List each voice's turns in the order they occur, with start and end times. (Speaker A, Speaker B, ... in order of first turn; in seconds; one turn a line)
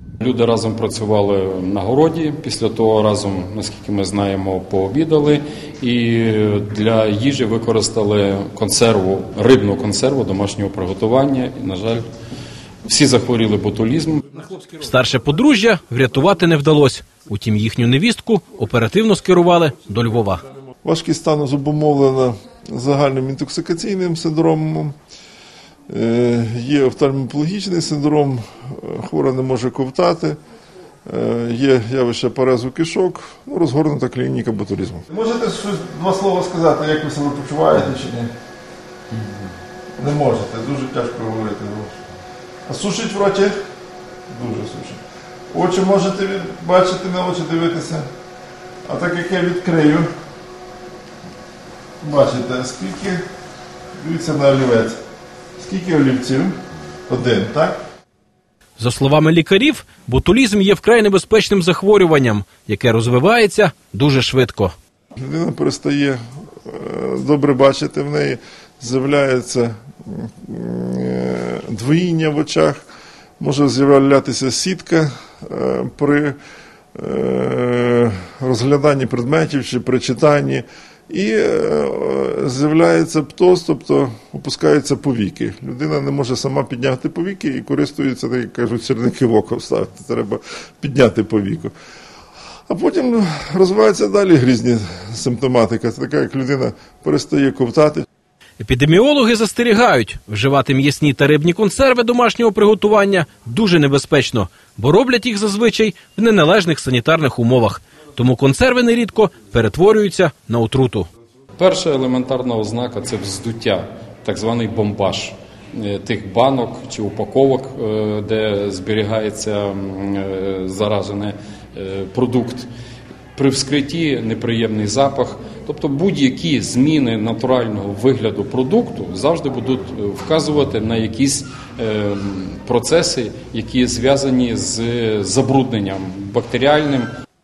Speaker A: 0.2-12.0
Speaker A: 12.9-14.5
Speaker B: 14.6-20.4
Speaker C: 20.9-25.0
Speaker C: 25.9-30.4
Speaker C: 31.1-38.3
Speaker C: 40.0-42.0
Speaker C: 42.7-43.5
Speaker C: 44.3-48.1
Speaker C: 48.9-50.1
Speaker C: 52.0-53.2
Speaker C: 54.0-55.0
Speaker C: 55.6-56.5
Speaker C: 57.1-57.8
Speaker B: 58.8-64.7
Speaker C: 65.2-72.8
Speaker C: 73.4-76.4
Speaker C: 77.0-91.7
Speaker C: 92.7-98.0
Speaker B: 98.6-111.1
Speaker A: 111.6-122.7
Speaker A: 123.3-137.1